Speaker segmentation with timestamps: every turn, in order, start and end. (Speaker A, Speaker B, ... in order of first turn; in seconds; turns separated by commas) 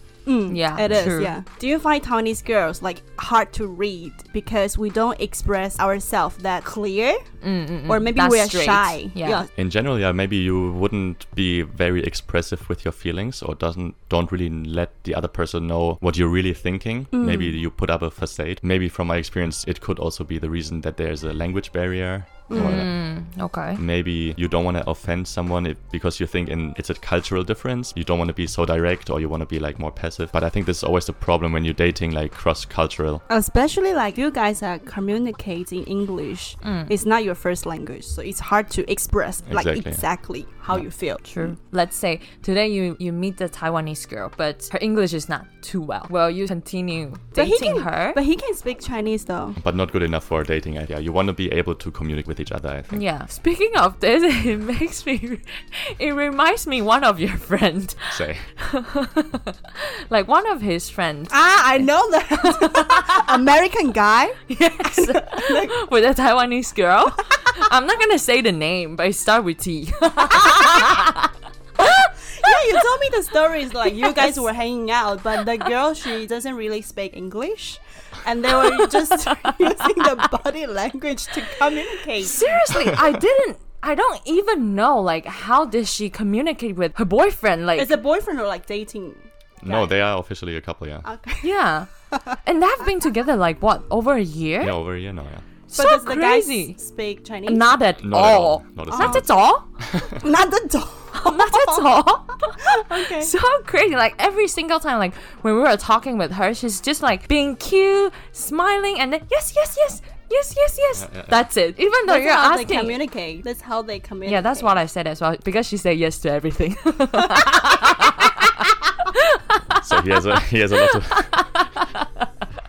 Speaker A: 0.2-7.2, Speaker B: 0.5-1.3, Speaker B: 7.4-9.4, Speaker A: 7.9-9.5, Speaker C: 9.6-22.9, Speaker A: 17.1-17.6, Speaker A: 22.5-22.8, Speaker B: 22.5-23.8, Speaker C: 23.8-33.2, Speaker A: 33.3-41.5, Speaker B: 36.6-36.9, Speaker C: 39.5-40.0, Speaker B: 41.2-48.2, Speaker A: 47.4-49.6, Speaker C: 49.6-53.0, Speaker B: 52.9-61.4, Speaker C: 58.1-58.5, Speaker A: 61.3-65.7, Speaker B: 62.4-63.3, Speaker B: 64.5-72.8, Speaker A: 70.4-70.9, Speaker A: 72.3-82.7, Speaker B: 73.8-74.3, Speaker B: 78.5-80.1, Speaker B: 82.2-88.0, Speaker A: 87.8-89.9, Speaker C: 89.6-91.0, Speaker A: 91.0-91.5, Speaker B: 91.4-91.9, Speaker A: 92.1-92.4, Speaker B: 92.4-94.8, Speaker C: 94.6-95.4, Speaker B: 95.7-96.8, Speaker A: 95.7-97.7, Speaker B: 97.5-99.6, Speaker C: 98.0-99.2, Speaker A: 98.9-99.2, Speaker C: 99.8-100.2, Speaker A: 100.2-102.0, Speaker B: 101.2-113.0, Speaker A: 102.6-103.3, Speaker C: 111.0-111.4, Speaker A: 112.0-114.8, Speaker B: 114.2-122.3, Speaker C: 119.8-121.4